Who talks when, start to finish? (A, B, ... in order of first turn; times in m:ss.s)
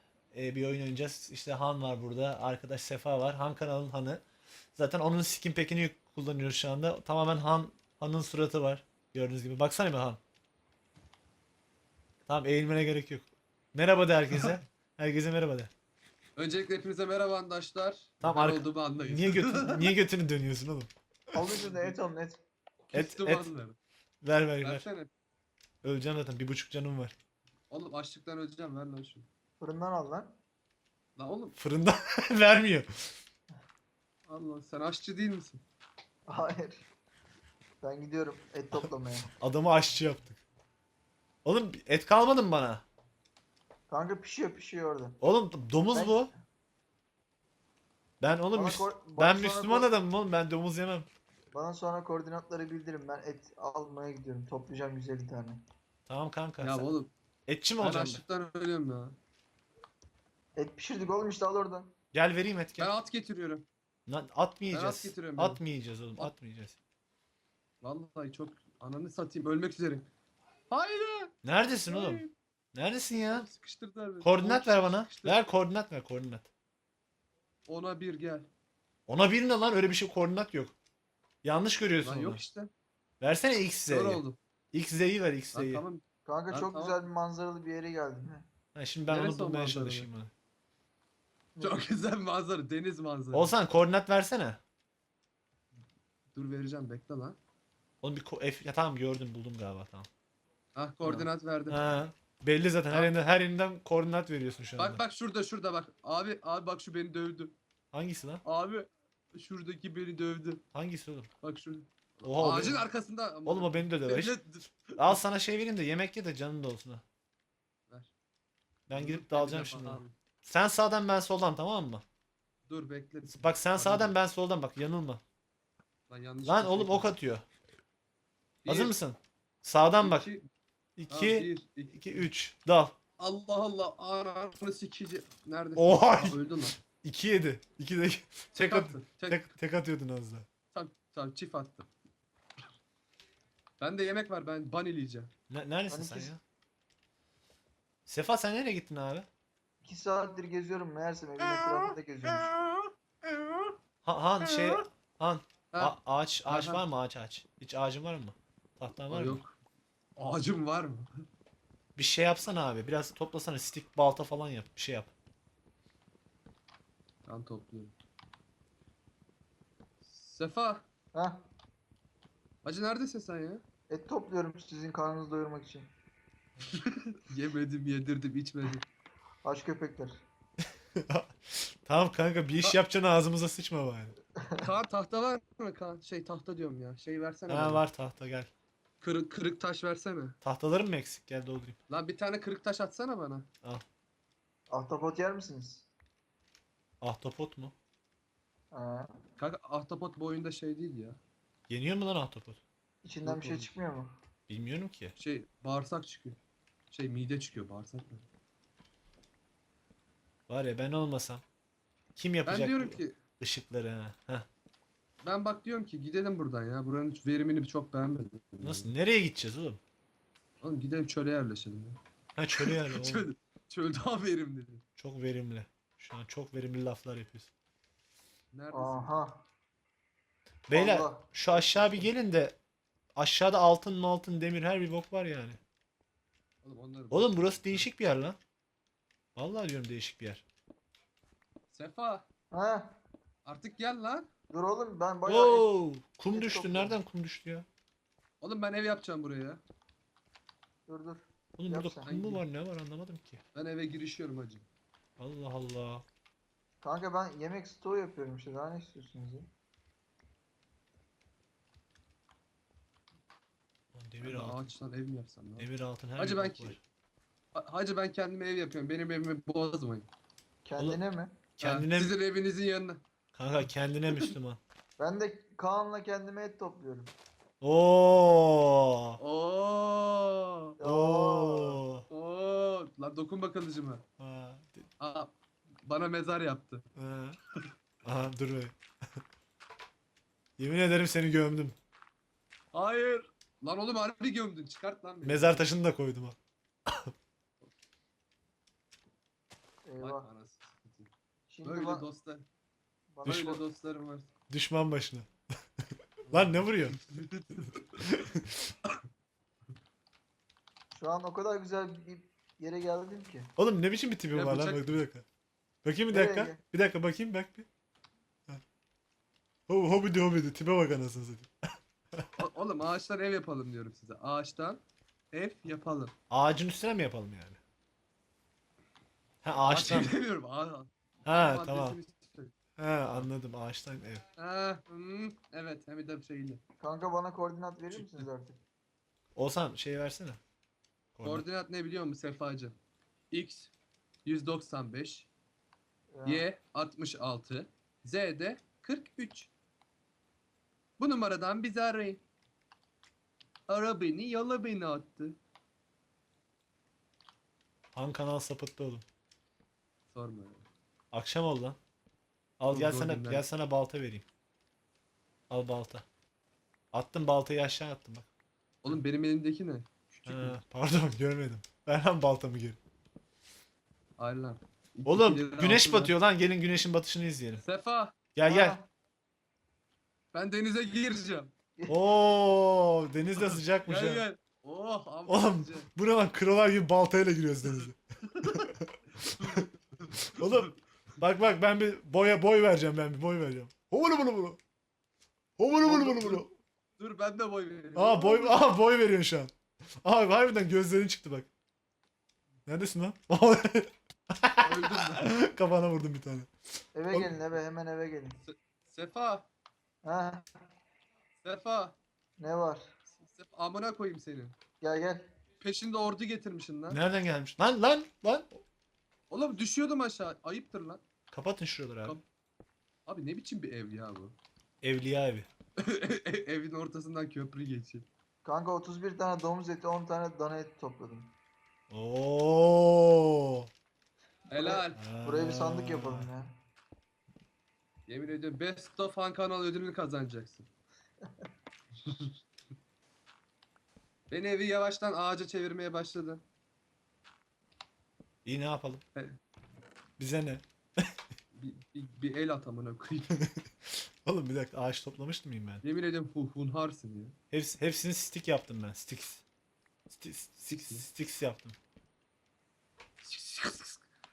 0:00.3-0:04.2 A
0:04.7-0:10.2 A
0:12.2-0:15.7 A
0:16.4-0:19.9 B
0:18.2-0:21.5 A
0:21.3-0:22.4 C
0:21.5-0:21.9 B
0:22.9-0:23.8 B
0:22.9-0:23.5 A
0:24.2-0:24.8 A
0:24.6-0:25.1 B
0:25.8-0:27.1 A
0:27.7-0:29.3 B
0:29.6-0:30.4 C
0:31.2-0:31.6 B
0:31.6-0:33.2 A
0:34.3-0:35.6 B
0:36.3-0:36.8 C
0:37.8-0:39.3 C
0:38.7-0:40.4 A
0:41.4-0:42.8 A
0:43.9-0:45.2 C
0:45.2-0:46.3 A
0:45.9-0:46.3 C
0:48.2-0:51.1 A
0:48.5-0:49.9 C
0:51.5-0:55.6 C
0:56.1-0:56.9 A
0:56.6-0:57.1 B
0:57.5-0:58.2 A
0:57.8-0:59.2 B
1:00.6-1:01.9 C
1:02.1-1:02.9 A
1:02.8-1:03.6 B
1:04.1-1:06.8 A
1:04.7-1:05.6 B
1:07.8-1:10.1 B
1:10.7-1:11.3 B
1:11.4-1:13.5 A
1:11.9-1:12.3 B
1:13.3-1:15.4 B
1:14.2-1:16.5 A
1:17.6-1:18.5 B
1:19.1-1:20.7 A
1:21.4-1:22.4 A
1:22.0-1:22.7 B
1:23.2-1:25.8 A
1:23.9-1:24.4 B
1:25.5-1:27.0 B
1:26.2-1:28.5 C
1:28.7-1:30.3 A
1:29.1-1:30.1 B
1:31.6-1:31.8 C
1:31.6-1:33.5 B
1:33.3-1:34.6 A
1:36.3-1:37.4 B
1:38.0-1:40.1 A
1:40.7-1:41.9 B
1:41.0-1:45.0 A
1:44.8-1:47.5 B
1:47.9-1:48.4 A
1:48.4-1:50.6 B
1:50.7-1:51.3 A
1:51.4-1:55.2 B
1:52.2-1:52.9 A
1:53.4-1:54.4 A
1:55.0-1:57.0 A
1:58.9-2:02.0 A
1:58.9-2:00.1 B
2:02.7-2:04.2 B
2:03.3-2:05.2 A
2:06.1-2:07.1 B
2:06.4-2:07.5 A
2:08.6-2:08.9 B
2:08.7-2:10.3 A
2:10.0-2:10.5 B
2:11.0-2:13.0 A
2:11.1-2:12.2 B
2:13.2-2:16.8 B
2:15.8-2:20.5 A
2:18.6-2:19.5 B
2:20.7-2:21.9 B
2:23.8-2:25.3 B
2:25.5-2:26.4 A
2:25.9-2:26.3 C
2:28.0-2:29.3 A
2:29.8-2:32.5 C
2:31.4-2:33.7 B
2:34.0-2:39.4 A
2:34.4-2:34.8 B
2:35.7-2:36.8 B
2:39.1-2:39.6 B
2:40.2-2:41.2 B
2:42.0-2:45.1 A
2:47.2-2:47.9 B
2:50.0-2:50.8 B
2:51.1-2:51.4 C
2:52.6-2:53.6 B
2:53.9-2:55.9 C
2:56.7-2:58.8 B
2:59.4-3:00.2 C
3:00.9-3:04.1 A
3:04.4-3:04.7 C
3:04.6-3:07.8 B
3:07.5-3:08.5 A
3:09.0-3:10.4 B
3:10.4-3:11.8 A
3:11.9-3:13.5 B
3:14.7-3:15.9 C
3:17.0-3:17.7 A
3:18.7-3:19.2 C
3:19.4-3:21.2 B
3:21.7-3:22.6 A
3:23.0-3:24.2 C
3:23.2-3:23.7 B
3:24.5-3:25.1 A
3:25.2-3:26.4 B
3:26.9-3:28.2 B
3:30.5-3:31.4 A
3:32.2-3:34.4 A
3:32.4-3:33.2 B
3:35.2-3:38.9 B
3:38.6-3:39.8 A
3:40.6-3:42.0 B
3:42.4-3:43.3 A
3:42.5-3:44.8 B
3:45.0-3:47.5 A
3:48.5-3:49.2 B
3:48.7-3:49.4 C
3:50.7-3:52.6 A
3:50.7-3:51.2 C
3:51.5-3:52.0 B
3:53.2-3:55.6 A
3:56.6-3:57.9 B
3:57.1-3:58.4 A
3:59.4-4:00.4 A
4:01.7-4:02.2 B
4:02.5-4:03.0 C
4:03.4-4:04.3 B
4:04.5-4:05.7 C
4:05.2-4:07.6 A
4:06.3-4:07.0 C
4:08.4-4:09.6 B
4:10.9-4:12.1 C
4:11.6-4:13.4 A
4:12.0-4:12.4 B
4:13.5-4:14.6 B
4:15.2-4:16.0 A
4:16.8-4:19.5 C
4:23.9-4:24.7 A
4:24.2-4:26.8 B
4:25.6-4:26.8 A
4:27.5-4:30.1 B
4:30.6-4:31.4 C
4:31.6-4:32.2 A
4:31.6-4:33.0 B
4:33.3-4:34.6 A
4:35.0-4:37.1 C
4:37.6-4:39.2 A
4:39.2-4:40.8 B
4:40.8-4:41.8 C
4:40.8-4:42.0 A
4:42.1-4:44.0 B
4:44.2-4:44.9 A
4:45.0-4:46.8 B
4:47.0-4:47.4 A
4:48.0-4:49.2 A
4:50.6-4:51.8 A
4:52.7-4:55.6 B
4:55.2-4:57.1 A
4:59.8-5:00.3 C
5:00.0-5:01.1 B
5:01.5-5:02.1 C
5:01.6-5:02.5 B
5:03.1-5:03.6 C
5:03.2-5:04.3 B
5:04.5-5:05.3 A
5:05.8-5:07.0 A
5:06.3-5:08.0 B
5:08.0-5:08.7 A
5:10.9-5:13.5 C
5:13.6-5:15.2 A
5:14.3-5:15.0 B
5:15.8-5:17.7 A
5:16.1-5:16.6 C
5:19.7-5:21.5 A
5:22.4-5:24.8 B
5:25.3-5:26.1 B
5:26.3-5:27.6 A
5:29.4-5:30.1 A
5:29.7-5:32.5 B
5:31.2-5:32.0 A
5:32.8-5:34.2 A
5:34.4-5:36.6 B
5:36.8-5:38.6 C
5:37.9-5:38.2 B
5:39.3-5:40.4 A
5:41.1-5:41.4 A
5:41.2-5:42.8 B
5:43.3-5:43.7 B
5:44.2-5:45.3 B
5:46.1-5:46.4 C
5:46.2-5:49.5 B
5:51.0-5:52.2 B
5:53.7-5:55.4 B
5:57.9-5:59.0 A
6:00.1-6:00.6 B
6:01.1-6:01.8 A
6:02.6-6:04.2 A
6:02.7-6:03.4 B
6:05.5-6:06.0 A
6:06.9-6:08.3 A
6:08.8-6:10.6 B
6:10.3-6:12.8 A
6:14.2-6:16.1 B
6:15.0-6:17.6 A
6:17.6-6:18.1 B
6:18.3-6:18.8 A
6:18.4-6:18.9 C
6:20.3-6:21.5 B
6:21.8-6:22.1 C
6:21.9-6:24.2 A
6:23.8-6:25.9 B
6:25.3-6:29.6 A
6:27.6-6:30.7 B
6:30.3-6:34.6 A
6:35.6-6:36.5 A
6:35.8-6:36.4 C
6:37.0-6:38.6 B
6:38.0-6:41.5 A
6:42.6-6:46.5 A
6:44.6-6:45.3 B
6:46.9-6:48.4 C
6:48.4-6:49.5 B
6:50.0-6:50.5 C
6:51.4-6:52.0 B
6:52.4-6:52.9 C
6:53.1-6:54.6 B
6:54.8-6:55.3 C
6:55.6-6:57.0 B
6:56.9-6:58.6 A
6:59.3-7:01.0 B
7:01.3-7:02.2 A
7:03.0-7:04.4 B
7:04.8-7:05.5 A
7:05.8-7:08.1 B
7:08.4-7:11.3 C
7:11.9-7:13.7 A
7:14.5-7:15.0 B
7:14.5-7:16.5 C
7:14.9-7:16.3 A
7:18.1-7:20.7 B
7:22.0-7:22.3 B
7:24.3-7:26.4 B
7:28.4-7:29.0 A
7:30.2-7:31.1 A
7:31.5-7:33.4 B
7:33.3-7:35.8 A
7:35.8-7:37.4 B
7:37.5-7:39.4 A
7:40.1-7:41.8 A
7:40.8-7:41.1 B
7:43.2-7:44.0 B